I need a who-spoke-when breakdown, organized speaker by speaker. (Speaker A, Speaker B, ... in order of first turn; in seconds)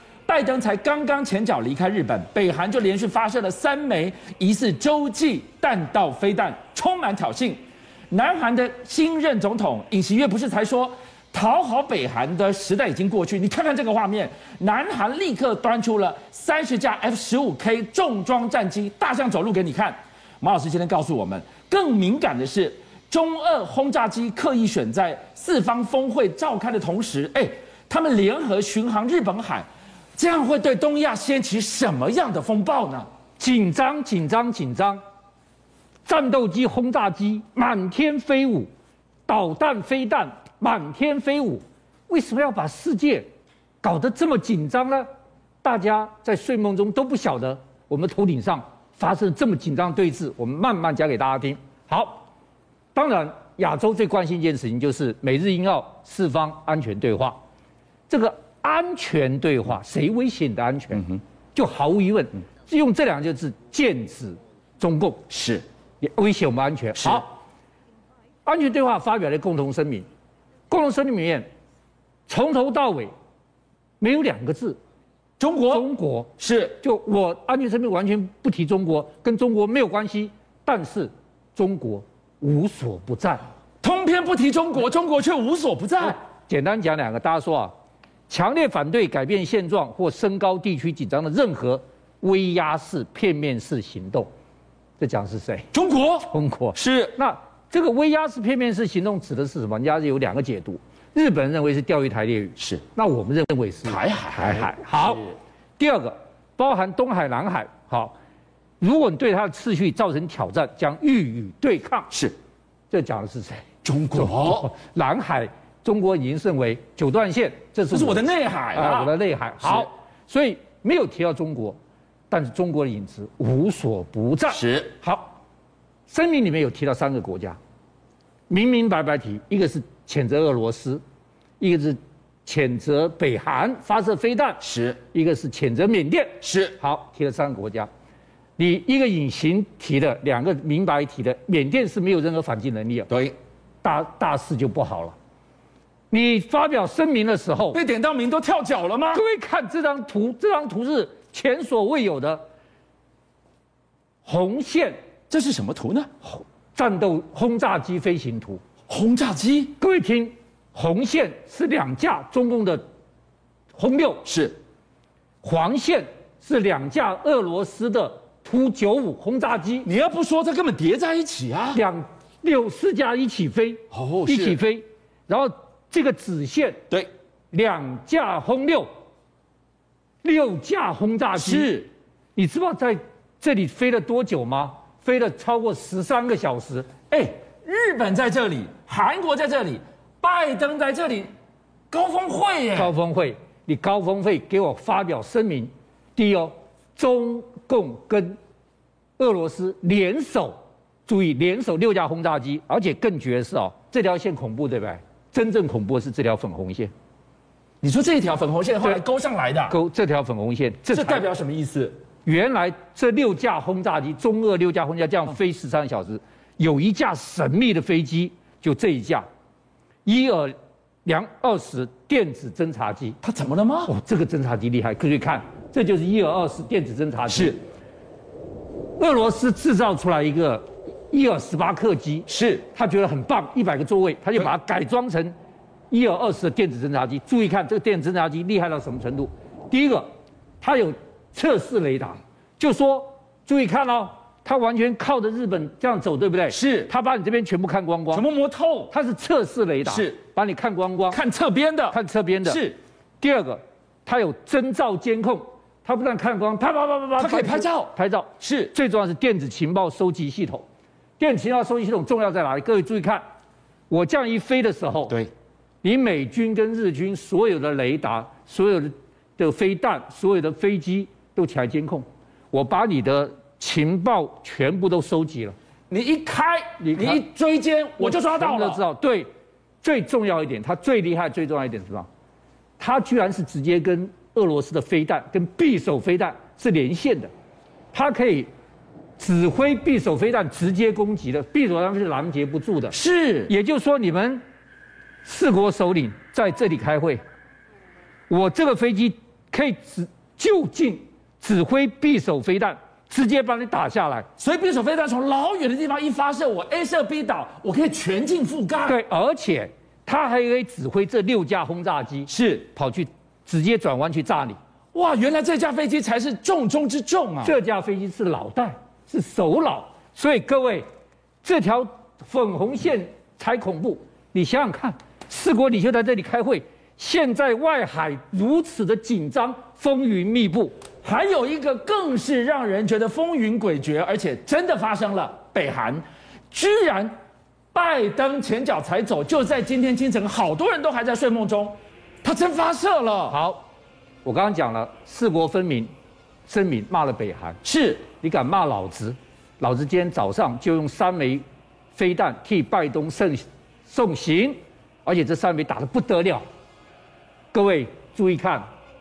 Speaker A: 0.3-33.1, 65.3-65.6, 67.0-67.2, 75.4-75.8, 76.4-76.8, 83.8-86.2, 95.7-97.2, 103.8-105.3, 113.8-114.7, 117.9-119.9, 124.5-124.9, 134.6-135.0, 136.4-136.8, 143.1-143.3, 147.7-149.2, 155.3-156.1, 158.9-159.8, 164.2-164.6, 169.8-171.8, 173.9-174.6, 181.3-181.9, 187.1-191.3, 191.9-192.9, 207.8-209.8, 210.9-212.0, 223.2-223.9, 227.3-227.6, 232.3-232.6, 246.5-246.9, 248.1-248.9, 249.8-250.2, 251.1-252.8, 257.2-258.7, 275.9-278.8, 292.9-293.5, 304.4-309.0, 312.3-312.7, 314.9-317.6, 331.0-337.1, 337.7-343.4, 347.6-348.0
Speaker B: 33.4-35.0, 36.0-38.7, 39.3-43.2, 43.8-45.1, 45.6-52.3, 52.9-57.4, 58.1-65.3, 66.0-67.4, 68.5-70.0, 70.7-71.5, 72.3-73.1, 74.0-74.8, 75.7-83.5, 86.0-87.7, 88.3-94.3, 95.0-95.7, 96.2-105.2, 105.8-108.1, 108.8-112.1, 112.9-121.8, 122.3-125.4, 126.1-127.6, 128.5-131.0, 131.6-134.6, 135.1-137.9, 138.6-143.1, 143.8-145.2, 146.1-147.8, 149.1-152.4, 154.2-155.0, 156.2-158.6, 159.8-162.8, 163.7-164.2, 165.4-169.9, 171.7-176.8, 177.5-178.9, 180.2-181.8, 182.3-186.9, 192.7-198.4, 199.2-206.9, 209.7-211.3, 212.2-219.2, 220.1-223.2, 223.9-227.6, 229.0-235.3, 235.9-240.1, 240.6-248.2, 248.9-251.2, 251.9-252.6, 253.2-260.6, 261.2-263.2, 263.9-265.2, 265.8-275.6, 276.8-277.2, 278.0-279.3, 279.8-282.1, 282.8-287.3, 287.9-288.5, 289.2-292.9, 293.5-294.4, 295.2-297.2, 298.3-304.3, 308.9-314.6, 317.4-320.8, 321.4-330.8, 343.3-343.7, 344.2-345.9, 346.5-356.4, 357.5-358.6